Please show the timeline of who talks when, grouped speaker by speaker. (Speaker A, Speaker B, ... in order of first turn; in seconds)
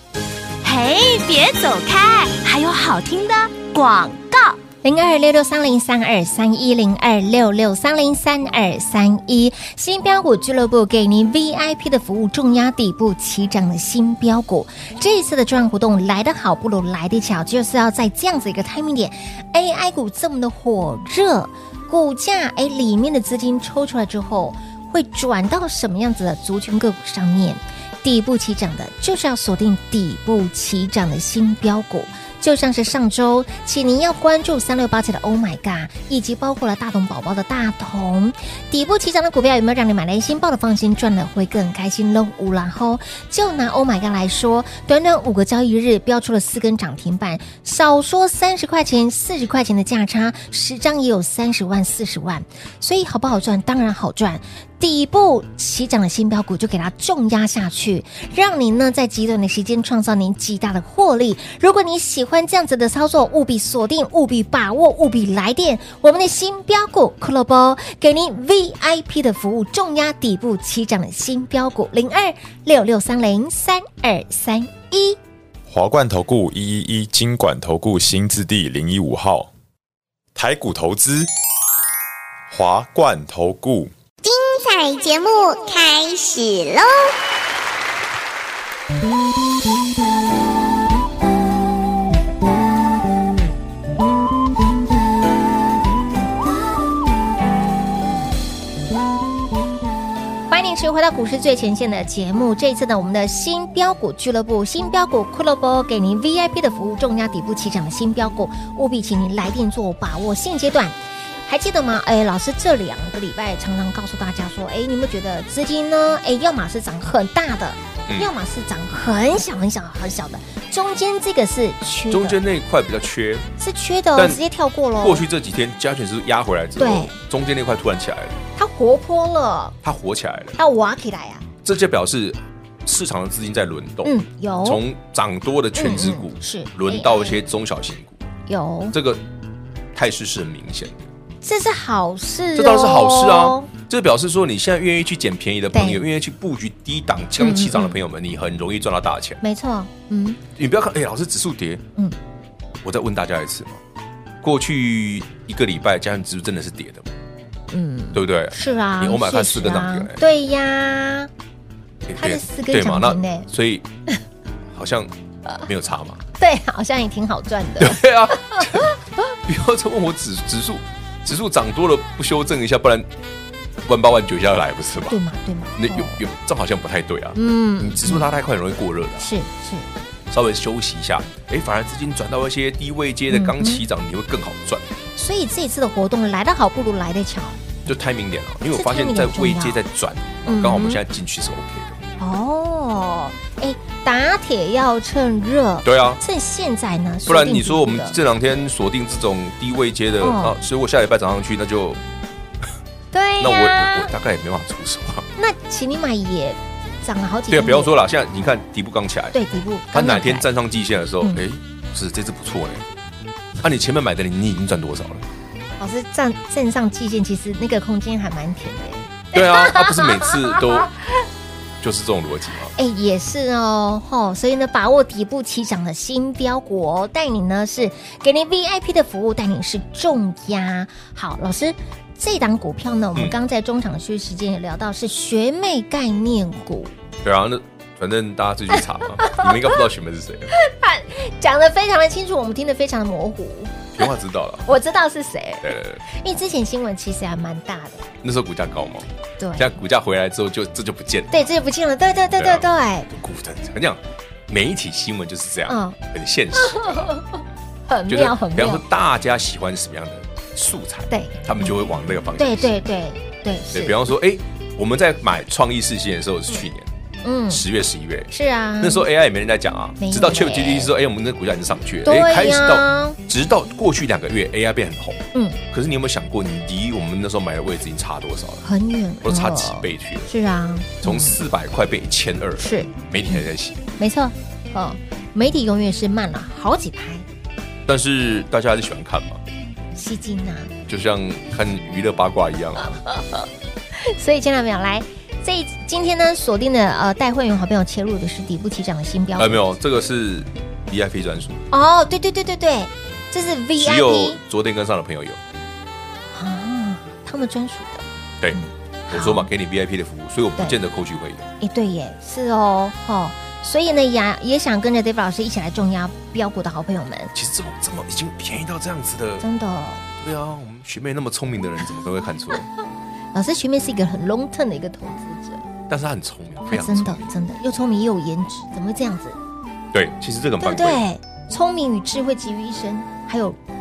Speaker A: 0.6-4.6
Speaker B: 4.8-75.2, 100.5-122.4, 123.6-125.3, 126.8-127.2, 128.6-129.8, 130.6-131.5, 134.0-134.8, 135.7-137.4, 138.5-139.0, 141.4-143.7, 145.7-146.0, 147.4-148.0, 149.4-150.4, 157.7-161.3, 162.2-163.5, 166.4-168.9, 175.1-176.2, 177.3-178.3, 179.2-179.9, 183.3-183.8, 185.2-187.6, 188.7-189.8, 190.5-191.0, 192.2-198.2, 200.2-200.6, 203.1-204.1, 205.4-207.9, 209.3-210.5, 215.8-220.9, 222.8-236.9, 239.2-239.8, 240.5-244.1, 244.7-248.1, 249.4-249.7, 251.3-253.1, 255.7-256.0, 256.6-258.8, 261.1-261.7, 262.4-264.0, 267.2-267.6, 268.3-269.1, 270.0-270.9, 272.1-273.2, 275.3-275.6, 278.6-281.4, 282.6-283.4, 284.0-287.3, 289.9-290.7, 292.8-299.7, 301.7-304.4, 306.3-309.5, 311.6-317.3, 319.4-320.0, 323.3-325.7, 326.7-329.4, 330.6-333.6
Speaker C: 75.7-79.5, 80.3-81.3, 82.5-83.9
Speaker D: 84.2-87.1
Speaker E: 122.1-123.5, 124.2-124.4, 125.0-128.4, 129.8-130.6, 131.6-138.2, 138.9-139.2, 139.9-141.0, 142.6-149.4, 150.6-151.8, 152.8-153.8, 154.4-157.1, 158.1-160.2, 162.1-163.9, 164.7-165.1, 165.6-166.2, 167.8-168.9, 169.5-173.1, 173.9-175.2, 175.8-179.3, 180.3-184.8, 187.9-192.0, 195.8-196.2, 197.3-202.0, 203.4-205.3, 207.5-209.4, 209.9-212.8, 213.6-215.3, 219.3-220.9, 221.8-222.7, 237.2-240.5, 243.9-244.7, 245.6-246.0, 248.2-249.1, 249.6-251.5, 252.4-257.1, 258.1-262.8, 263.7-266.9, 267.5-278.7, 279.2-280.3, 281.0-283.8, 287.9-289.4, 290.9-293.0, 299.4-301.6, 303.8-305.4, 309.1-311.5, 317.3-319.4, 320.1-322.7, 325.9-327.3, 329.9-331.0